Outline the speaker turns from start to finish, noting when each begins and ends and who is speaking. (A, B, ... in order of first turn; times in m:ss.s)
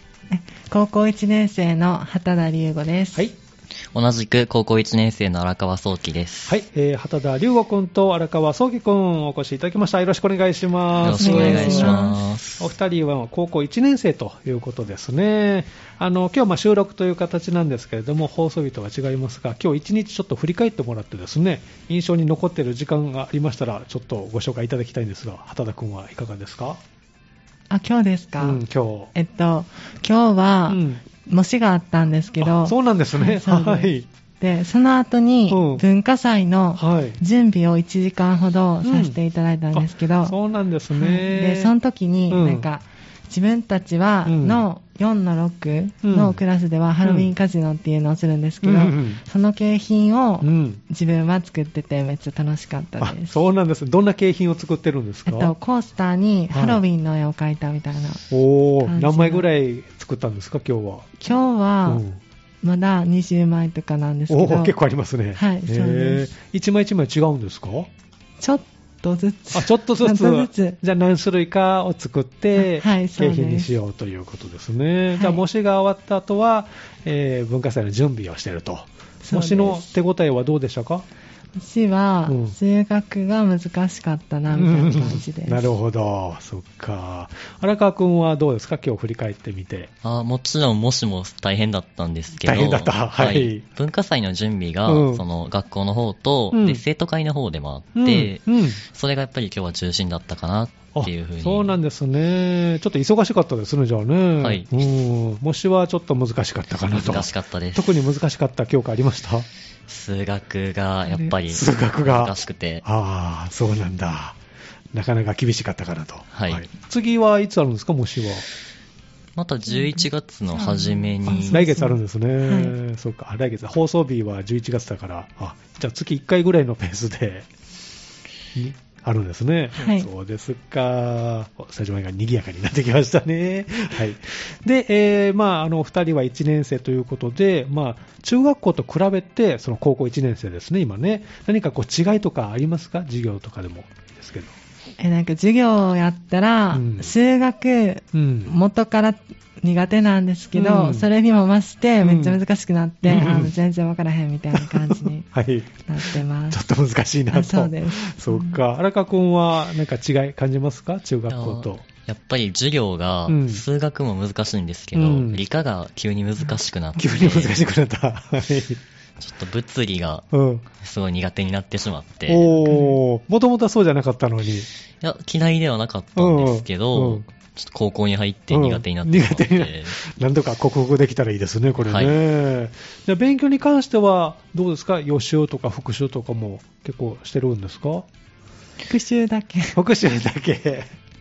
0:00.3-0:03.3 A
0:03.9-0:06.6 B
0:06.5-0:26.8 C
0:11.0-0:12.6 B
0:11.1-0:12.2 A
0:27.7-0:28.6 A
0:28.4-0:29.1 C
0:29.1-0:40.3 A
0:30.7-0:31.0 C
0:32.4-0:34.1 C
0:35.5-0:35.8 C
0:36.8-0:37.2 C
0:38.8-0:39.2 C
0:39.7-0:41.7 C
0:40.9-0:53.4 A
0:42.3-0:42.6 C
0:44.2-0:44.6 C
0:46.0-0:46.4 C
0:47.0-0:47.3 C
0:48.6-0:49.2 C
0:50.4-0:50.8 C
0:53.0-0:55.5 C
0:55.3-0:58.2 A
0:56.5-0:56.8 C
0:58.3-1:01.0 C
0:58.8-0:59.4 A
1:01.2-1:02.0 A
1:01.8-1:02.2 C
1:02.6-1:04.7 A
1:04.3-1:07.9 C
1:05.4-1:06.3 A
1:08.4-1:10.8 A
1:09.5-1:21.0 C
1:12.6-1:13.7 A
1:15.1-1:15.4 A
1:19.2-1:19.9 A
1:21.6-1:25.6 A
1:22.3-1:22.6 C
1:24.5-1:29.9 C
1:30.0-1:41.7 B
1:32.4-1:33.6 C
1:34.9-1:35.2 C
1:36.5-1:36.8 C
1:37.9-1:38.8 C
1:40.9-1:49.5 C
1:44.4-1:44.7 B
1:46.8-1:47.9 B
1:49.9-1:52.8 B
1:51.1-1:51.3 A
1:51.5-1:54.4 C
1:54.9-1:58.4 C
1:56.3-1:56.7 B
1:59.4-2:01.6 B
1:59.7-2:02.7 A
2:01.2-2:07.5 C
2:08.5-2:24.5 C
2:09.8-2:10.1 A
2:25.0-2:35.3 A
2:26.7-2:27.1 C
2:28.1-2:28.5 C
2:30.5-2:31.1 C
2:32.0-2:32.4 C
2:33.0-2:33.5 C
2:34.5-2:41.8 C
2:35.8-2:36.6 A
2:37.3-2:38.6 A
2:41.3-2:47.6 B
2:43.3-2:43.6 C
2:44.9-2:45.4 C
2:47.0-2:48.8 C
2:49.2-2:52.6 B
2:50.3-2:50.6 C
2:52.3-2:54.7 C
2:52.6-2:53.0 A
2:55.0-3:00.0 B
2:56.2-2:57.2 C
2:58.5-3:08.0 C
3:01.8-3:02.2 B
3:08.8-3:09.8 A
3:09.7-3:10.9 C